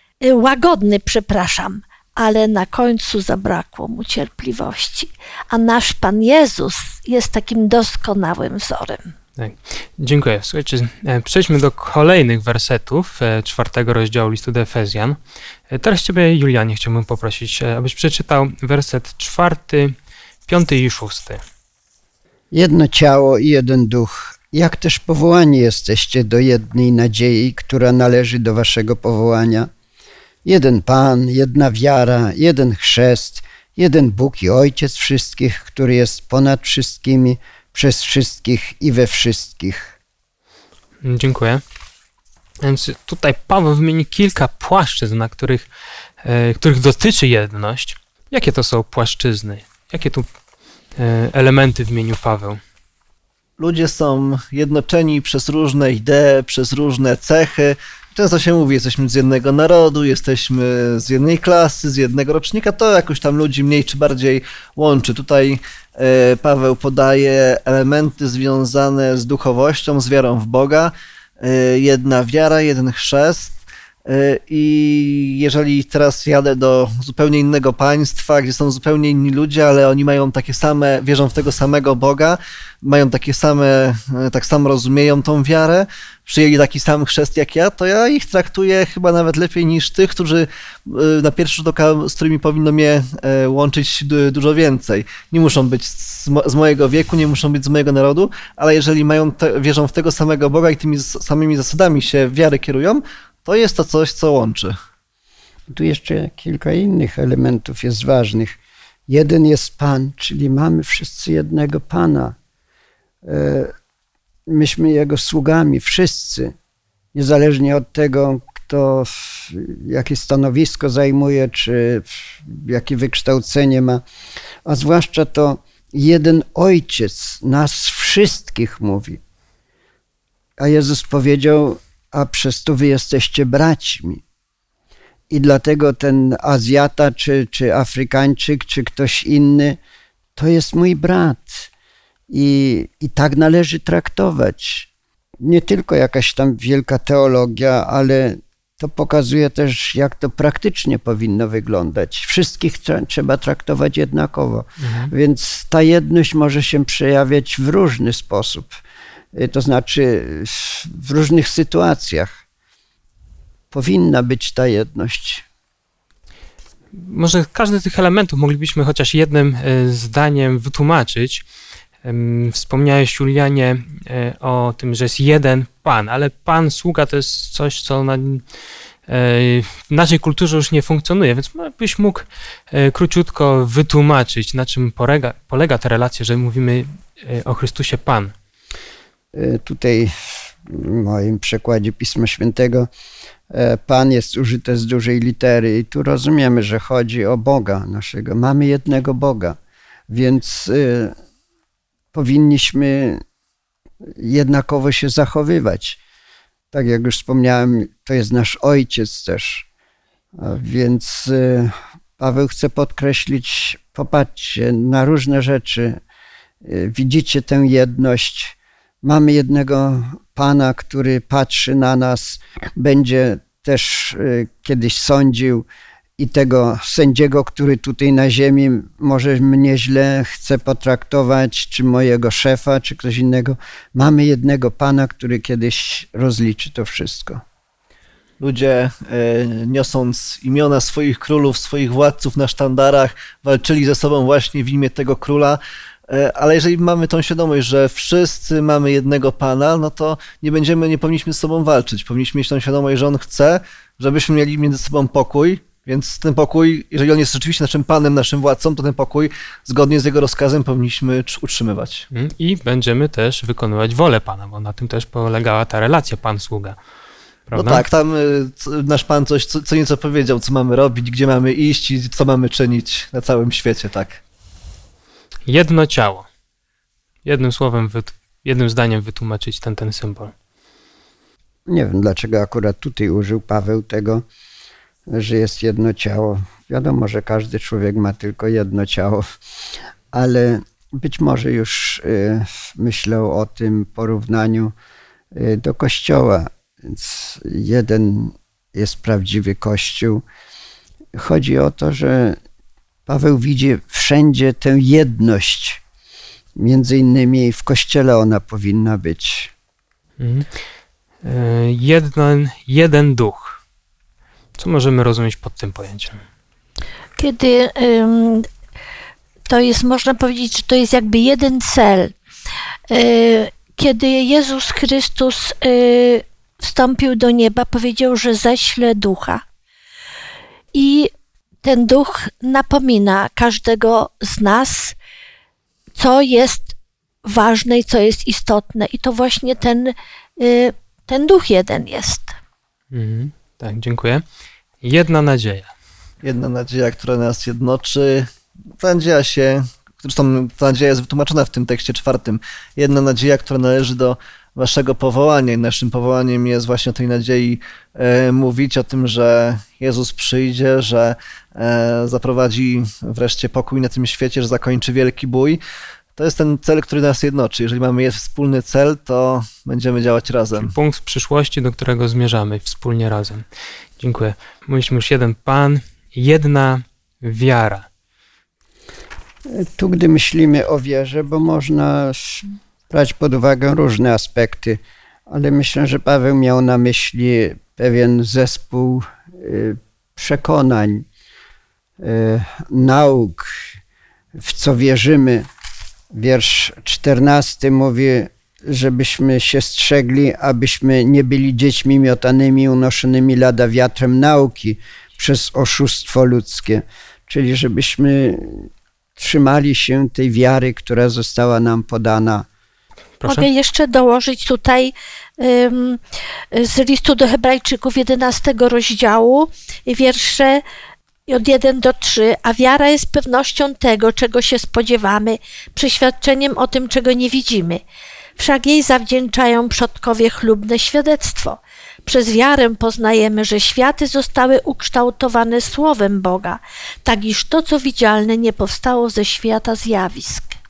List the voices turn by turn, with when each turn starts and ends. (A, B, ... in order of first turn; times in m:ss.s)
0:00.2-0:09.1 A
0:09.4-0:20.0 B
0:20.5-0:21.4 B
0:22.5-0:29.7 C
0:30.4-0:40.0 C
0:41.0-0:41.6 B
0:42.6-0:45.7 B
0:46.2-0:50.3 B
0:51.0-0:52.6 B
0:53.6-1:44.8 D
1:45.7-1:52.4 C
1:53.2-1:53.7 C
1:54.5-1:56.5 C
1:57.1-2:04.0 C
2:04.6-2:09.2 C
2:10.6-2:14.2 C
2:15.3-2:19.8 C
2:20.4-2:21.7 C
2:22.3-2:24.9 C
2:25.4-2:38.8 C
2:34.8-2:35.1 B
2:39.4-2:42.4 C
2:43.7-2:45.4 C
2:46.9-2:51.4 B
2:52.0-2:58.4 B
2:59.1-3:08.3 B
3:09.3-3:12.9 C
3:13.5-3:19.6 C
3:20.1-3:21.2 C
3:22.1-3:23.2 C
3:24.2-3:26.0 C
3:26.7-3:29.7 C
3:30.4-3:36.0 C
3:36.6-3:45.7 C
3:46.2-3:57.4 C
3:58.4-4:22.1 D
4:22.1-4:26.8 B
4:27.5-4:27.8 B
4:27.5-4:34.2 D
4:35.5-4:36.3 B
4:37.2-4:40.3 B
4:41.7-4:44.2 C
4:45.1-4:49.2 C
4:50.1-4:54.7 C
4:55.3-5:00.2 C
5:01.1-5:02.4 C
5:03.1-5:05.8 C
5:06.6-5:09.5 C
5:10.2-5:10.5 B
5:11.2-5:13.6 B
5:14.6-5:16.2 B
5:17.2-5:18.5 A
5:19.5-5:22.1 A
5:22.9-5:29.4 A
5:30.7-5:31.1 A
5:31.6-5:35.0 A
5:36.0-5:42.4 A
5:42.9-5:44.2 B
5:44.8-5:45.7 B
5:46.2-5:48.3 D
5:48.8-6:05.6 D
6:06.2-6:10.7 D
6:10.6-6:13.4 B
6:14.0-6:17.9 B
6:19.5-6:31.1 C
6:32.0-6:33.7 C
6:34.4-6:35.5 C
6:36.1-6:52.5 C
6:53.2-6:53.5 B
6:53.3-6:56.0 A
6:56.5-7:00.6 A
7:01.3-7:07.8 A
7:08.4-7:20.6 A